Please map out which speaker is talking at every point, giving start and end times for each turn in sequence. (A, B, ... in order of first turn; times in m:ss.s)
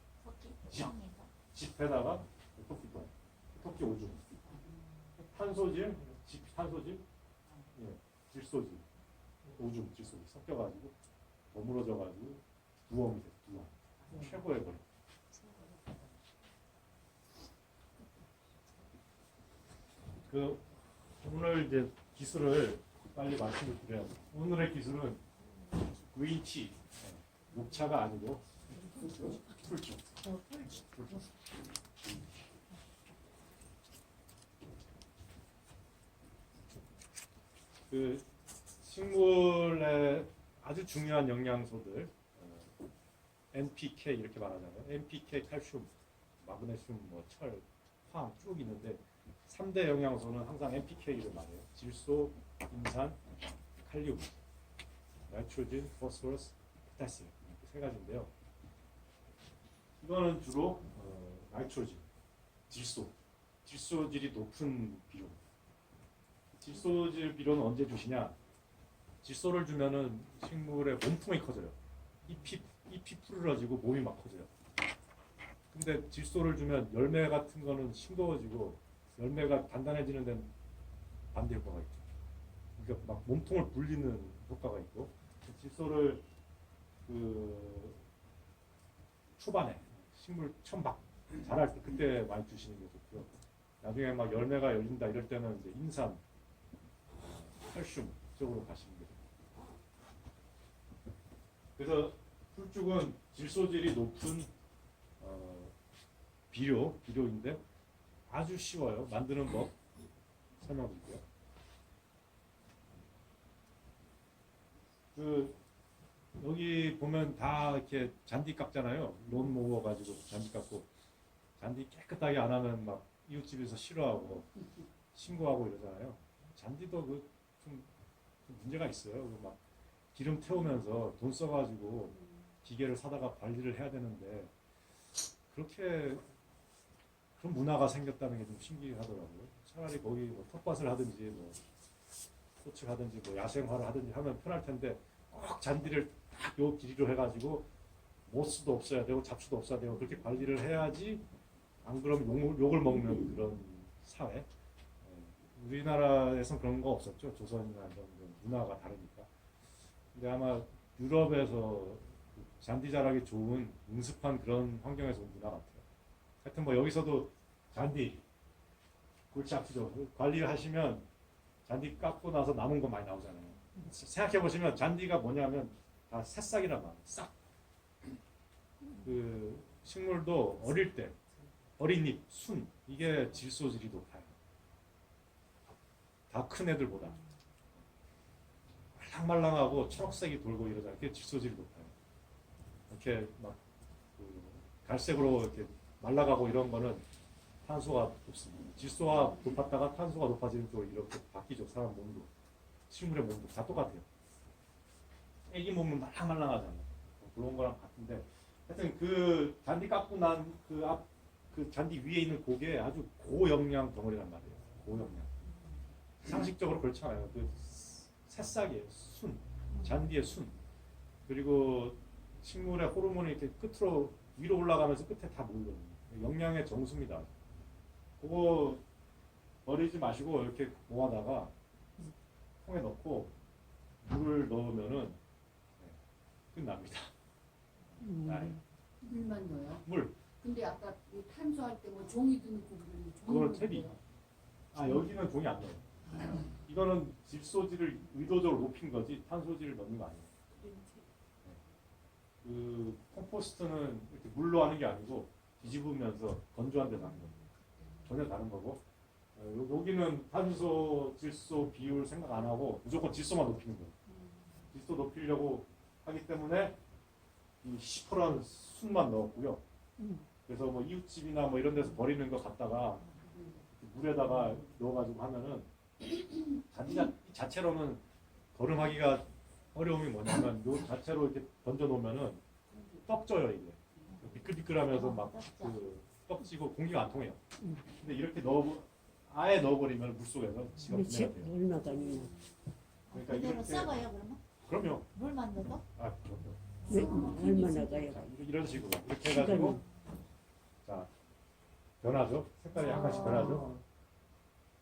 0:00.2-0:01.3 A
0:00.7-0:00.9 B
0:01.5-0:04.2 B
0:05.2-0:07.0 B
0:07.7-0:08.8 B
0:09.5-0:10.9 B
0:11.5-0:14.8 B
0:15.4-0:15.7 A
0:20.3-0:25.2 B
0:26.1-0:31.3 B
0:37.9-0:38.2 B
0:38.8-0:42.7 B
0:43.5-0:45.9 B
0:46.4-0:53.2 B
0:53.8-0:54.3 B
0:55.3-0:58.3 B
1:00.0-1:02.0 B
1:02.7-1:05.4 B
1:06.5-1:08.4 B
1:09.2-1:14.5 B
1:15.7-1:20.5 B
1:21.3-1:22.0 B
1:22.8-1:26.2 B
1:27.1-1:28.0 B
1:29.4-1:33.3 B
1:33.8-1:36.2 B
1:37.2-1:39.2 B
1:41.8-1:44.5 B
1:45.2-1:45.7 B
1:46.5-1:47.6 B
1:48.3-1:49.8 B
1:50.6-1:51.2 B
1:55.1-1:55.6 B
1:56.4-2:00.9 B
2:01.6-2:04.5 B
2:05.1-2:07.9 B
2:08.4-2:09.6 B
2:10.1-2:14.5 B
2:15.5-2:16.2 B
2:17.4-2:21.6 B
2:22.6-2:27.7 B
2:28.3-2:31.2 B
2:31.8-2:34.5 B
2:35.0-2:39.3 B
2:40.1-2:45.8 B
2:46.4-2:48.2 B
2:49.3-2:51.0 B
2:51.6-2:57.4 B
2:59.0-3:01.2 B
3:01.8-3:04.3 B
3:06.3-3:07.2 B
3:08.9-3:11.9 B
3:12.9-3:13.6 B
3:14.2-3:17.0 B
3:17.6-3:22.3 B
3:22.9-3:24.0 B
3:25.5-3:35.3 B
3:36.2-3:40.6 B
3:41.3-3:47.3 B
3:48.2-3:48.8 B
3:49.6-3:51.5 B
3:52.6-3:53.3 B
3:54.0-3:55.2 B
3:56.5-3:57.1 B
3:57.9-3:58.6 B
3:58.0-3:58.6 C
3:59.0-3:59.8 D
3:59.8-4:00.2 B
4:00.4-4:04.0 D
4:03.2-4:04.0 B
4:04.7-4:05.8 B
4:06.6-4:10.3 B
4:10.5-4:11.1 D
4:12.4-4:17.3 B
4:18.0-4:18.8 B
4:19.4-4:23.9 B
4:24.1-4:24.7 D
4:24.7-4:26.8 B
4:27.6-4:29.6 B
4:30.0-4:30.2 C
4:30.4-4:33.0 B
4:33.2-4:33.6 D
4:33.7-4:35.7 B
4:36.7-4:42.4 B
4:42.7-4:43.1 D
4:43.0-4:47.4 B
4:44.9-4:45.8 A
4:48.0-4:51.5 B
4:50.8-4:52.3 C
4:51.8-4:52.4 D
4:53.1-4:54.4 A
4:53.1-4:53.9 B
4:54.6-4:55.1 B
4:55.1-4:55.8 A
4:56.0-4:56.6 B
4:56.8-4:58.0 A
4:56.9-4:57.8 D
4:56.9-4:58.4 C
4:58.0-4:59.8 B
4:59.2-4:59.8 C
5:00.8-5:01.1 B
5:02.0-5:03.8 B
5:02.7-5:03.8 A